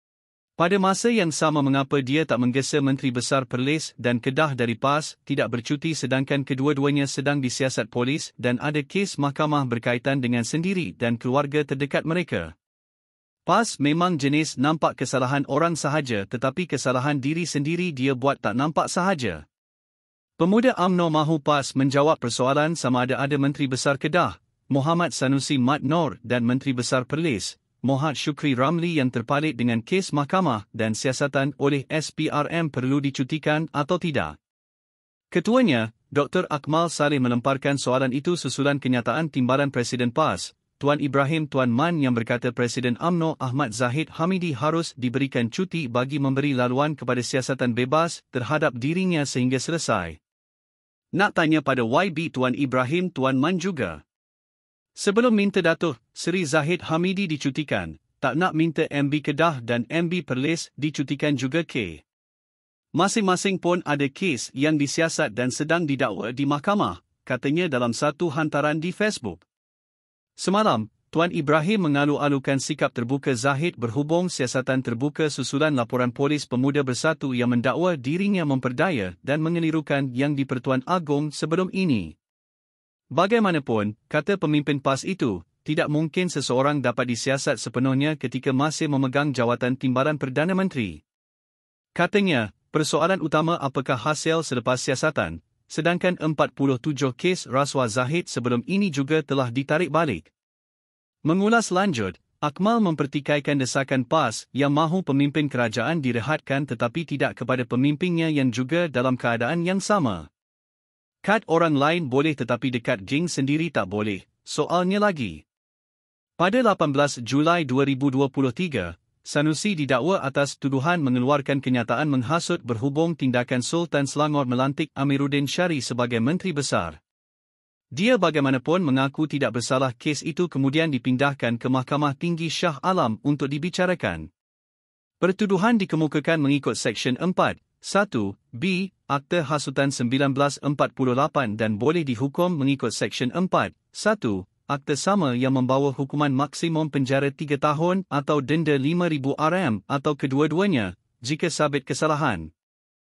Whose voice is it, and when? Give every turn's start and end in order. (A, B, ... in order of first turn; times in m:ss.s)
0:00.6-0:12.5 A
0:13.4-0:19.4 A
0:20.4-0:34.4 A
0:35.3-0:50.2 A
0:51.1-0:54.0 A
0:55.0-1:02.0 A
1:02.9-1:09.4 A
1:10.4-1:22.2 A
1:23.1-1:31.0 A
1:31.9-1:40.3 A
1:41.2-1:50.3 A
1:51.2-1:55.4 A
1:56.4-2:07.0 A
2:07.9-2:14.3 A
2:15.2-2:32.5 A